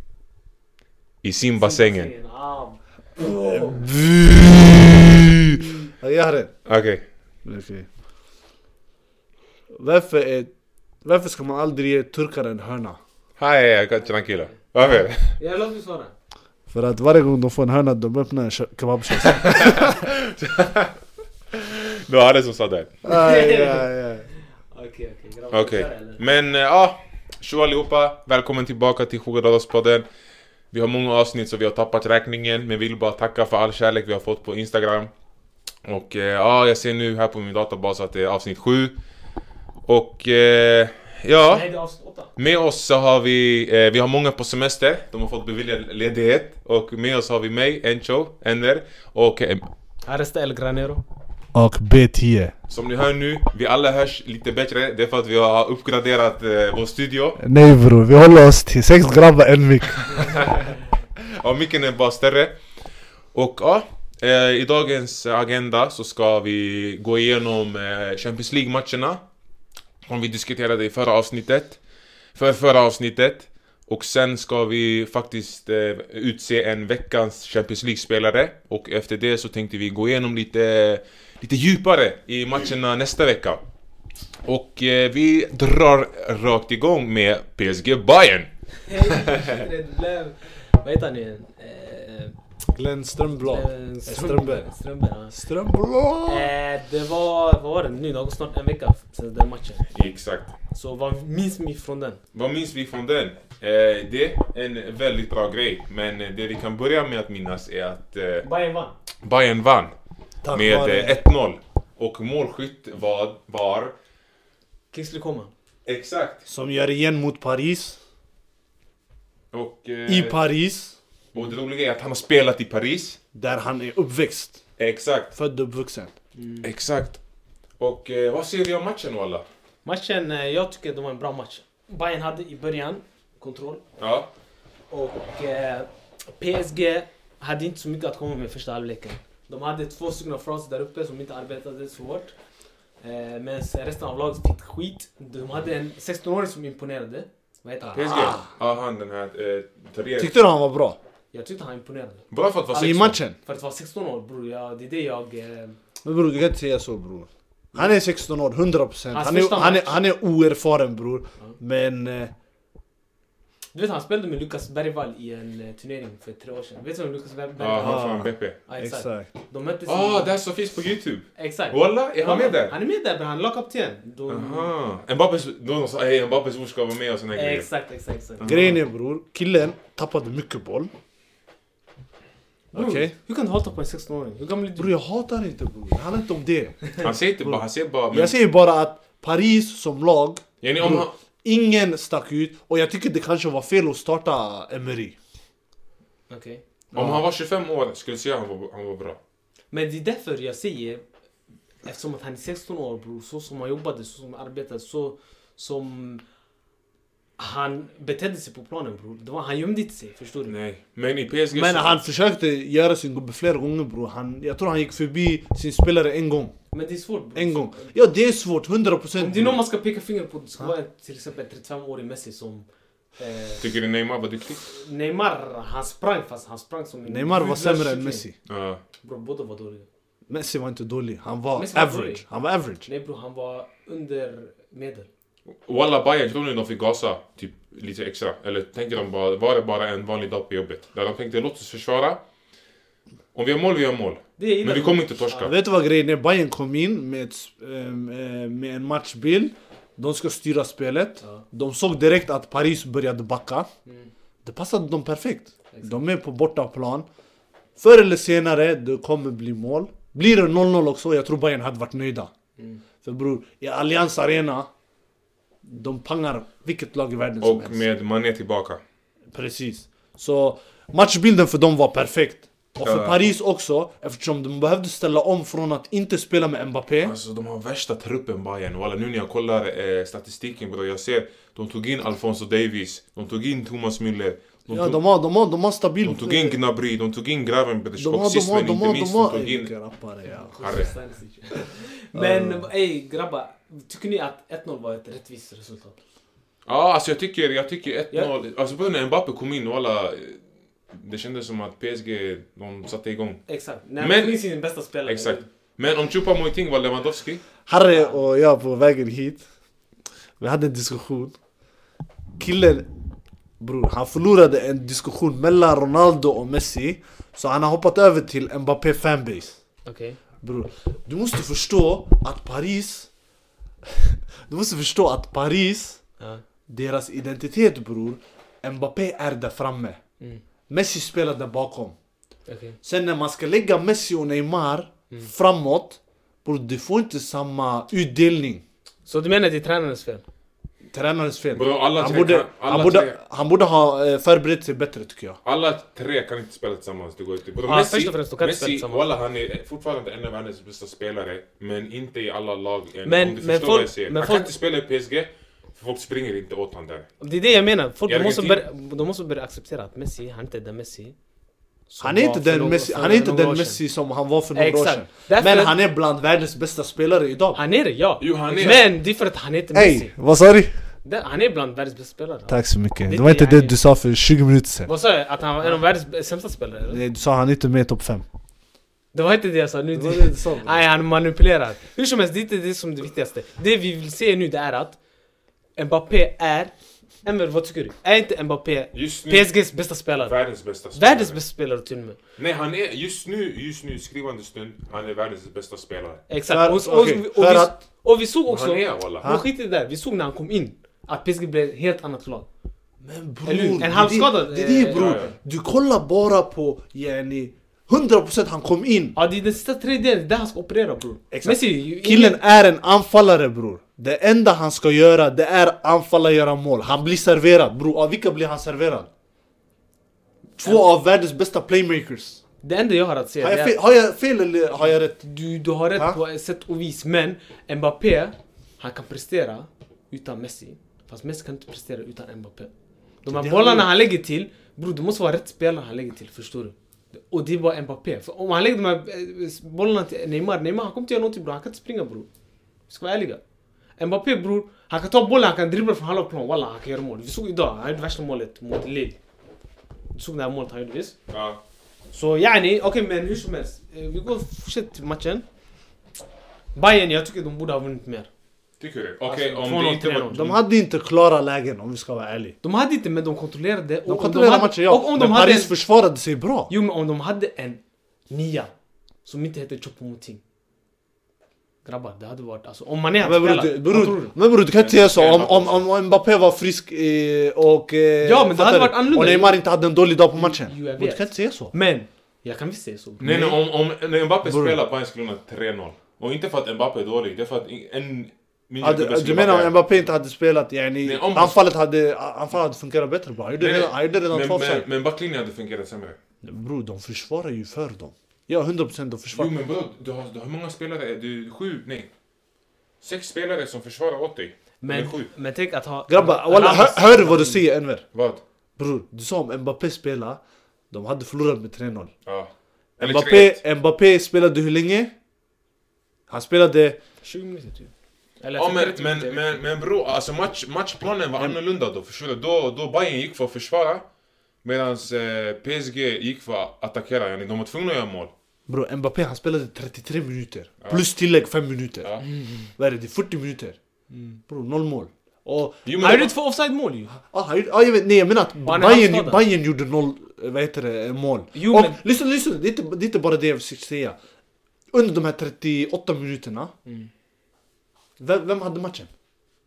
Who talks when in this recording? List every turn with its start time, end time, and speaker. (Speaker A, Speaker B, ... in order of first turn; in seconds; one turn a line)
Speaker A: 1.2-2.1
Speaker B: 1.6-3.8
Speaker C: 3.2-5.1
Speaker C: 5.9-6.6
Speaker A: 6.7-7.1
Speaker C: 7.4-7.9
Speaker C: 9.7-10.5
Speaker C: 11.0-13.0
Speaker A: 13.4-15.4
Speaker B: 15.3-16.1
Speaker C: 16.7-20.0
Speaker A: 19.2-20.9
Speaker A: 21.5-23.0
Speaker C: 23.0-24.3
Speaker B: 23.1-23.9
Speaker B: 24.7-26.2
Speaker A: 25.5-30.1
Speaker A: 30.7-35.1
Speaker A: 35.9-39.0
Speaker A: 39.9-41.7
Speaker B: 41.4-42.3
Speaker A: 42.4-49.7
Speaker B: 50.0-51.0
Speaker C: 51.5-52.5
Speaker A: 52.7-57.4
Speaker C: 57.4-60.2
Speaker A: 60.1-60.7
Speaker A: 61.2-62.6
Speaker A: 63.3-69.2
Speaker A: 70.1-71.8
Speaker A: 72.3-83.6
Speaker A: 84.5-89.6
Speaker B: 88.9-92.4
Speaker C: 92.8-94.7
Speaker B: 93.4-95.4
Speaker C: 95.3-96.5
Speaker B: 96.3-99.9
Speaker A: 99.9-100.5
Speaker B: 100.7-102.2
Speaker A: 102.3-108.5
Speaker B: 108.4-108.9
Speaker A: 109.2-110.0
Speaker C: 110.4-111.2
Speaker A: 110.5-114.0
Speaker B: 114.9-115.5
Speaker A: 115.9-116.5
Speaker C: 116.5-118.0
Speaker A: 119.5-120.4
Speaker C: 120.1-121.0
Speaker A: 121.3-123.2
Speaker C: 123.3-124.6
Speaker A: 124.8-125.3
Speaker C: 125.3-126.1
Speaker B: 126.4-126.7
Speaker A: 126.6-127.2
Speaker A: 127.8-129.4
Speaker B: 129.8-133.8
Speaker A: 134.0-134.3
Speaker B: 134.9-142.3
Speaker B: 143.0-148.3
Speaker C: 147.9-148.5
Speaker A: 147.9-150.3
Speaker C: 150.2-151.0
Speaker B: 151.3-152.2
Speaker A: 152.3-153.2
Speaker C: 152.7-153.4
Speaker B: 152.8-155.8
Speaker C: 156.0-162.3
Speaker B: 159.1-159.9
Speaker B: 163.7-170.3
Speaker A: 167.6-168.6
Speaker C: 167.8-169.3
Speaker A: 169.8-172.7
Speaker B: 171.3-174.7
Speaker A: 174.3-177.7
Speaker B: 177.3-178.6
Speaker A: 178.4-178.8
Speaker C: 178.4-180.9
Speaker C: 182.7-183.1
Speaker B: 182.7-184.9
Speaker C: 184.8-195.2
Speaker A: 187.0-188.3
Speaker A: 190.6-191.1
Speaker B: 196.3-196.6
Speaker C: 196.9-197.2
Speaker A: 196.9-199.2
Speaker B: 199.7-201.0
Speaker B: 201.8-206.2
Speaker B: 207.4-210.5
Speaker A: 210.5-212.0
Speaker C: 211.5-216.5
Speaker B: 216.7-217.9
Speaker C: 217.3-219.6
Speaker B: 219.2-222.7
Speaker B: 223.2-223.7
Speaker A: 223.6-224.6
Speaker B: 224.6-228.2
Speaker C: 227.1-228.3
Speaker A: 228.5-228.8
Speaker B: 229.0-229.9
Speaker C: 230.3-232.8
Speaker B: 231.5-232.2
Speaker B: 232.8-235.1
Speaker A: 235.6-242.2
Speaker A: 243.3-245.5
Speaker B: 244.4-245.3
Speaker C: 245.3-253.7
Speaker C: 254.4-257.1
Speaker B: 255.7-256.0
Speaker C: 257.8-262.3
Speaker C: 263.0-264.7
Speaker C: 265.6-267.8
Speaker A: 267.4-268.8
Speaker C: 269.3-277.1
Speaker A: 272.8-273.3
Speaker A: 277.0-285.0
Speaker C: 284.7-286.6
Speaker A: 286.0-289.7
Speaker C: 288.0-290.5
Speaker B: 290.2-296.0
Speaker A: 290.6-290.9
Speaker C: 292.1-292.7
Speaker A: 296.6-303.4
Speaker B: 303.5-305.4
Speaker A: 304.0-304.4
Speaker A: 305.1-307.4
Speaker C: 307.7-309.4
Speaker B: 307.9-308.2
Speaker C: 310.4-311.3
Speaker C: 312.4-312.9
Speaker C: 313.6-319.6
Speaker B: 319.8-320.2
Speaker C: 320.4-323.1
Speaker C: 323.9-326.0
Speaker C: 326.7-330.0
Speaker C: 330.7-331.9
Speaker B: 332.5-332.8
Speaker C: 332.8-338.6
Speaker B: 339.1-340.2
Speaker C: 340.9-345.4
Speaker A: 341.5-343.1
Speaker A: 345.4-357.1
Speaker B: 347.7-349.1
Speaker B: 353.1-354.5
Speaker B: 357.2-361.1
Speaker A: 358.1-358.6
Speaker B: 361.9-363.8
Speaker C: 362.0-367.6
Speaker B: 364.6-365.8
Speaker B: 367.6-370.1
Speaker A: 368.2-368.9
Speaker C: 369.7-370.7
Speaker B: 371.0-373.8
Speaker C: 372.5-374.9
Speaker B: 374.9-377.0
Speaker C: 376.9-378.2
Speaker B: 379.1-385.0
Speaker C: 379.9-380.8
Speaker B: 385.8-392.2
Speaker A: 388.9-389.5
Speaker A: 390.2-391.4
Speaker A: 392.4-396.2
Speaker B: 396.3-402.5
Speaker C: 396.5-397.8
Speaker A: 398.5-399.3
Speaker C: 403.0-409.1
Speaker B: 403.4-405.3
Speaker A: 404.9-405.3
Speaker B: 409.1-412.4
Speaker C: 411.3-419.1
Speaker C: 420.6-422.4
Speaker B: 422.6-423.8
Speaker C: 423.4-425.2
Speaker B: 425.2-432.7
Speaker C: 433.2-433.9
Speaker B: 433.2-442.3
Speaker B: 442.9-443.4
Speaker B: 444.0-449.2
Speaker B: 450.1-451.1
Speaker A: 451.3-451.6
Speaker B: 452.1-455.4
Speaker B: 456.8-458.3
Speaker A: 458.8-460.6
Speaker B: 459.3-460.5
Speaker C: 460.3-462.6
Speaker B: 462.6-465.7
Speaker C: 464.1-466.7
Speaker B: 466.7-468.7
Speaker B: 469.2-470.4
Speaker B: 471.8-474.3
Speaker C: 473.2-481.7
Speaker A: 474.8-475.9
Speaker B: 478.2-479.6
Speaker B: 480.3-483.6
Speaker A: 483.2-489.8
Speaker C: 484.4-484.8
Speaker C: 488.8-494.9
Speaker A: 491.0-491.6
Speaker A: 493.6-496.2
Speaker C: 496.4-499.6
Speaker A: 499.3-502.1
Speaker A: 503.0-505.3
Speaker B: 504.8-507.6
Speaker C: 506.1-508.1
Speaker A: 508.1-508.4
Speaker C: 508.8-512.1
Speaker A: 512.2-513.6
Speaker C: 513.0-515.1
Speaker C: 516.3-517.0
Speaker B: 517.2-519.6
Speaker A: 518.6-524.1
Speaker A: 524.6-528.3
Speaker C: 528.7-532.1
Speaker B: 532.4-532.7
Speaker C: 532.8-533.8
Speaker B: 534.1-534.4
Speaker C: 534.5-535.8
Speaker A: 535.9-536.3
Speaker B: 536.0-537.1
Speaker C: 537.1-544.2
Speaker B: 538.6-539.4
Speaker B: 541.5-542.0
Speaker C: 544.9-546.7
Speaker C: 548.2-549.1